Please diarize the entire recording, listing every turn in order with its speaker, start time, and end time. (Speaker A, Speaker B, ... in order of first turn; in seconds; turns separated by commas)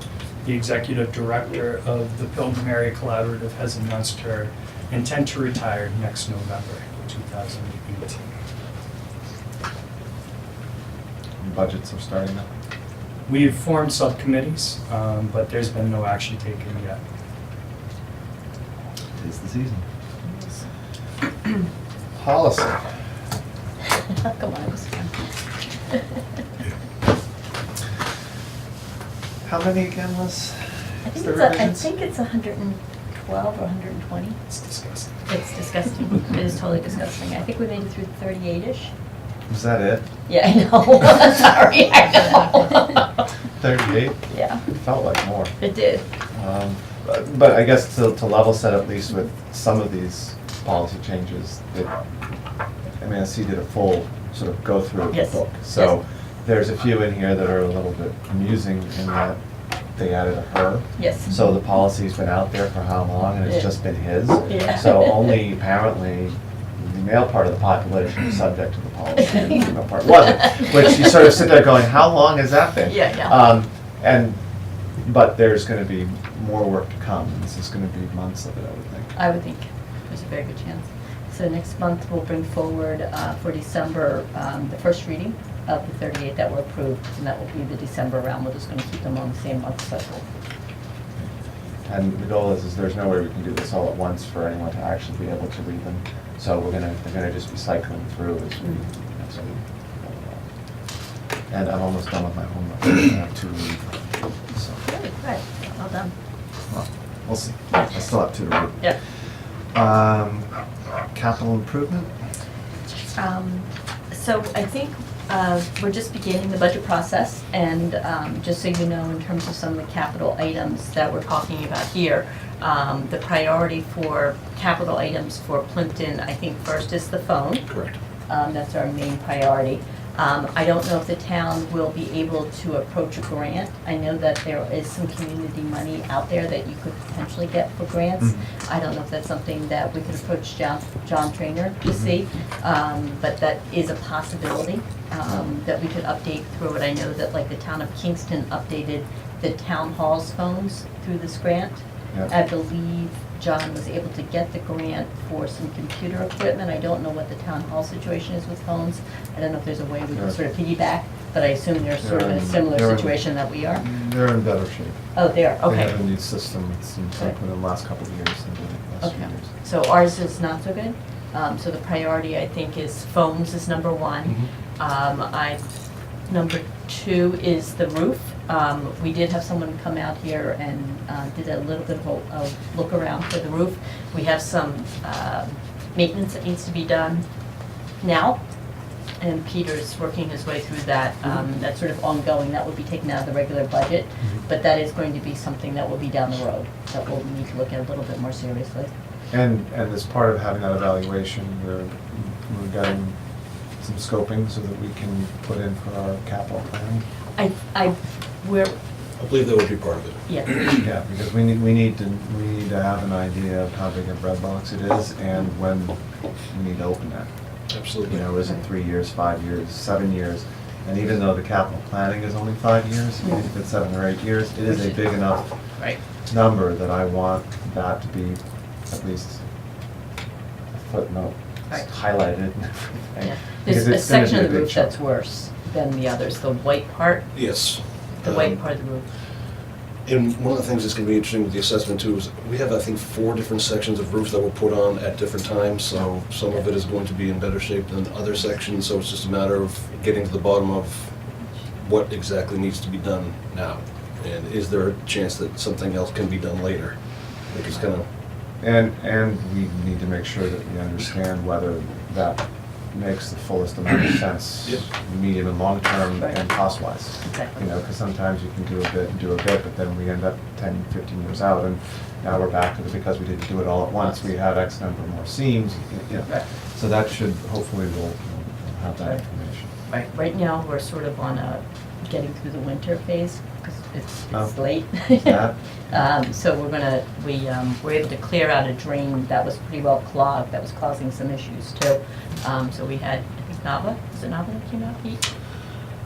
Speaker A: 0.4-8.2, Speaker B: 11.4-12.5, Speaker A: 13.2-17.0, Speaker B: 19.1-19.8, Speaker C: 20.2-20.6, Speaker B: 22.1-22.9, Speaker C: 24.0-25.1, Speaker C: 25.9-26.1, Speaker B: 29.4-31.9, Speaker C: 31.1-34.4, Speaker A: 34.5-35.1, Speaker C: 35.3-38.9, Speaker B: 39.5-40.1, Speaker C: 40.3-43.1, Speaker B: 43.6-45.6, Speaker C: 44.3-44.6, Speaker C: 45.6-46.0, Speaker B: 46.3-52.0, Speaker B: 53.0-59.4, Speaker C: 55.1-56.0, Speaker B: 59.9-79.2, Speaker C: 61.0-61.5, Speaker C: 63.4-65.4, Speaker C: 69.2-71.0, Speaker C: 72.8-73.4, Speaker C: 79.1-90.2, Speaker B: 91.1-104.8, Speaker C: 104.8-106.1, Speaker B: 106.7-110.6, Speaker C: 107.7-108.0, Speaker B: 111.1-112.1, Speaker C: 113.1-127.7, Speaker D: 127.7-128.0, Speaker C: 128.3-163.8, Speaker B: 138.2-138.4, Speaker B: 141.8-142.1, Speaker B: 162.0-165.0, Speaker C: 165.1-166.2, Speaker B: 165.6-169.5, Speaker C: 169.0-198.9, Speaker B: 199.3-207.1, Speaker C: 207.3-208.8, Speaker D: 209.2-210.8, Speaker C: 210.2-210.8, Speaker B: 210.8-217.3, Speaker D: 217.7-218.3, Speaker B: 217.9-229.4, Speaker C: 223.2-223.5, Speaker C: 224.7-226.0, Speaker B: 230.7-235.0, Speaker C: 233.2-239.1, Speaker D: 237.3-238.9, Speaker D: 240.0-258.1, Speaker B: 258.6-279.7, Speaker C: 266.2-267.6, Speaker C: 279.8-295.3, Speaker B: 284.3-286.1